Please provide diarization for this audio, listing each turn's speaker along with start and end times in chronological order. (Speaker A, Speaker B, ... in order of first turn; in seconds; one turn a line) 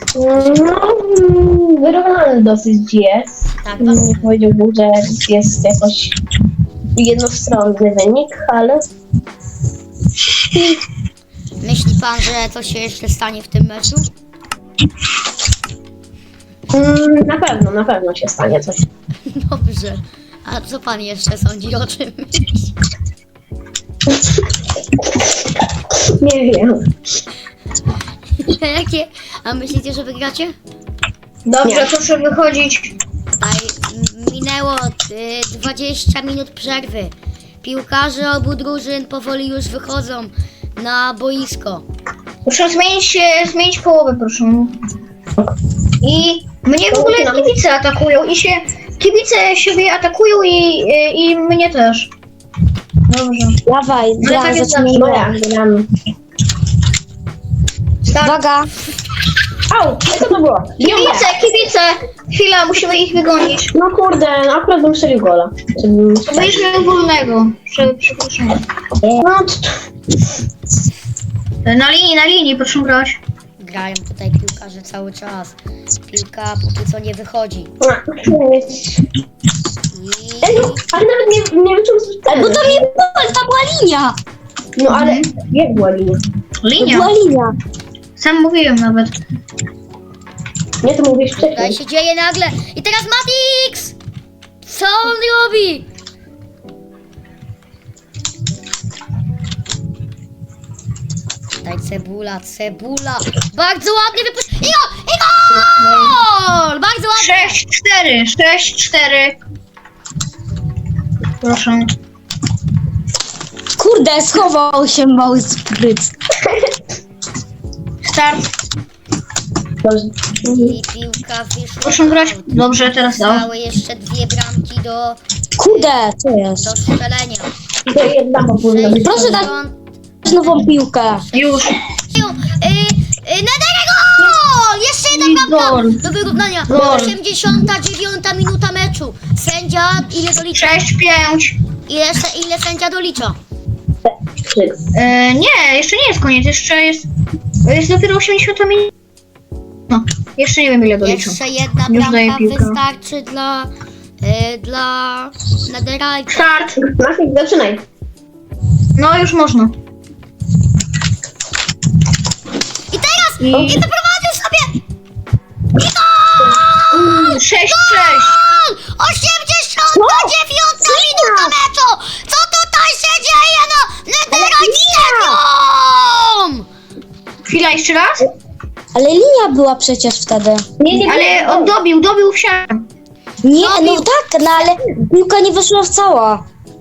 Speaker A: 0.1-6.2
Speaker B: 3.6-4.3
Speaker A: 7.0-8.9
Speaker B: 11.6-14.1
Speaker A: 16.7-18.9
Speaker B: 19.3-22.7
Speaker A: 26.0-26.9
Speaker B: 28.4-30.6
Speaker C: 31.5-33.0
Speaker A: 31.6-31.9
Speaker B: 33.3-41.9
Speaker C: 42.5-44.8
Speaker C: 46.0-52.1
Speaker A: 46.9-47.5
Speaker C: 53.1-53.6
Speaker D: 53.7-55.4
Speaker C: 54.2-55.1
Speaker A: 54.9-55.9
Speaker C: 58.0-58.4
Speaker D: 58.2-58.7
Speaker A: 59.7-61.3
Speaker C: 60.8-63.7
Speaker A: 63.7-66.3
Speaker C: 66.3-68.6
Speaker A: 69.0-69.8
Speaker C: 71.7-73.2
Speaker B: 73.6-75.6
Speaker B: 76.1-77.7
Speaker A: 77.8-79.1
Speaker B: 79.9-80.8
Speaker A: 80.4-82.9
Speaker D: 82.3-84.2
Speaker A: 84.8-86.2
Speaker C: 84.9-85.3
Speaker C: 86.6-87.1
Speaker D: 86.8-87.5
Speaker C: 88.2-89.2
Speaker A: 90.8-91.8
Speaker B: 91.4-94.0
Speaker B: 94.6-95.9
Speaker B: 101.6-107.6
Speaker C: 107.2-109.4
Speaker C: 111.4-111.9
Speaker D: 113.7-116.1
Speaker A: 116.4-116.7
Speaker C: 118.0-118.5
Speaker A: 119.8-120.8
Speaker B: 120.5-125.9
Speaker C: 121.8-123.5
Speaker D: 125.6-126.7
Speaker B: 126.6-127.5
Speaker A: 127.9-129.5
Speaker B: 128.6-129.8
Speaker D: 129.0-129.5
Speaker D: 130.2-131.3
Speaker B: 130.3-130.6
Speaker B: 131.3-140.7
Speaker C: 131.3-131.8
Speaker C: 135.1-136.0
Speaker C: 136.7-137.2
Speaker C: 140.5-141.6
Speaker B: 141.9-143.4
Speaker A: 144.1-144.8
Speaker C: 144.9-147.1
Speaker C: 147.6-148.9
Speaker C: 149.9-152.8
Speaker B: 151.0-153.7
Speaker B: 154.2-156.4
Speaker C: 156.3-156.8
Speaker A: 156.8-157.8
Speaker C: 159.0-159.7
Speaker B: 162.9-164.8
Speaker C: 163.4-163.9
Speaker B: 165.7-176.7
Speaker C: 166.9-168.4
Speaker D: 169.9-171.6
Speaker D: 174.3-175.4
Speaker C: 177.5-178.3
Speaker D: 178.9-180.7
Speaker A: 180.8-181.7
Speaker C: 181.1-182.8
Speaker D: 183.4-186.4
Speaker B: 183.6-184.1